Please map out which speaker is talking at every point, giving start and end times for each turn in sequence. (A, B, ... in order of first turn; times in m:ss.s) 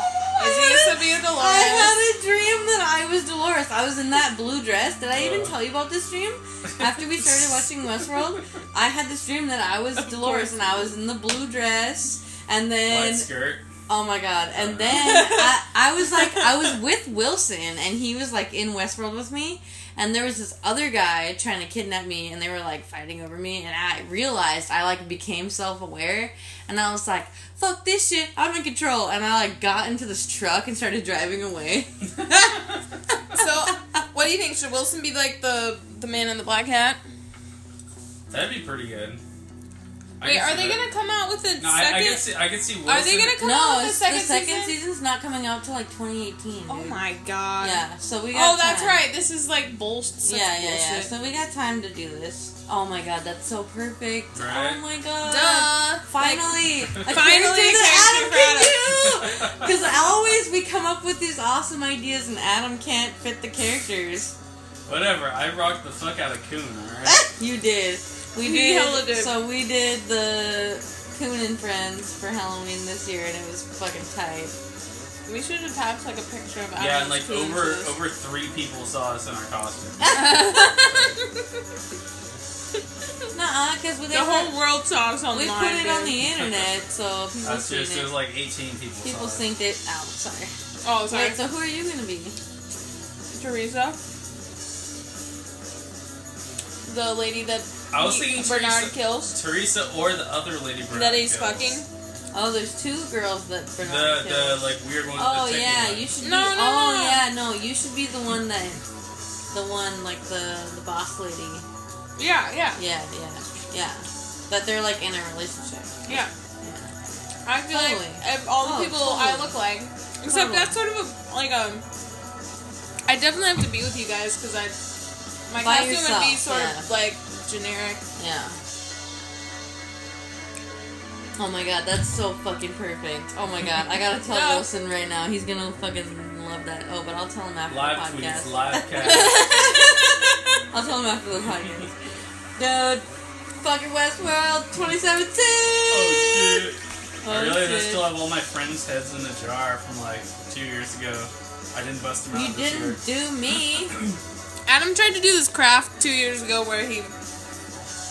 0:00.4-0:13.3 A
0:00.4-0:02.0 B
0:05.1-0:05.6 C
0:10.0-0:10.9 B
0:12.9-0:13.6 C
0:13.9-0:32.7 A
0:14.5-0:15.1 C
0:15.0-0:15.5 B
0:33.3-0:37.0 B
0:38.3-0:39.2 C
0:40.2-0:40.8 C
0:40.2-0:42.3 B
0:41.6-0:43.4 C
0:42.8-0:44.8 B
0:43.4-0:47.0 A
0:46.7-0:51.1 B
0:47.6-0:49.0 A
0:50.2-1:04.3 A
0:54.3-0:54.8 C
0:55.2-0:58.9 B
0:58.9-0:59.7 C
1:04.9-1:07.3 C
1:07.1-1:14.6 A
1:08.4-1:09.4 B
1:15.2-1:18.0 B
1:16.7-1:20.1 C
1:20.0-1:20.9 A
1:20.0-1:21.1 B
1:20.7-1:21.2 C
1:23.3-1:24.5 A
1:24.1-1:26.2 B
1:25.3-1:28.2 A
1:26.3-1:26.6 C
1:27.4-1:29.4 C
1:29.0-1:30.5 A
1:30.8-1:31.4 B
1:31.1-1:32.4 A
1:33.3-1:34.0 B
1:36.8-1:39.3 B
1:37.9-1:41.8 C
1:40.9-1:41.9 B
1:42.3-1:48.8 A
1:43.8-1:46.1 C
1:46.2-1:47.2 B
1:49.5-1:51.6 A
1:52.2-1:52.8 B
1:52.7-1:56.9 A
1:56.1-1:56.3 B
1:57.4-2:01.8 B
1:57.7-1:59.6 A
2:00.2-2:00.8 A
2:03.0-2:04.8 B
2:05.5-2:08.0 B
2:05.6-2:06.9 A
2:08.2-2:08.6 A
2:11.4-2:20.1 A
2:14.3-2:14.7 B
2:17.7-2:19.4 C
2:19.0-2:20.0 B
2:20.7-2:21.9 A
2:22.6-2:23.0 A
2:23.6-2:26.6 A
2:25.9-2:33.0 C
2:27.2-2:28.2 A
2:32.3-2:34.0 A
2:34.6-2:37.1 B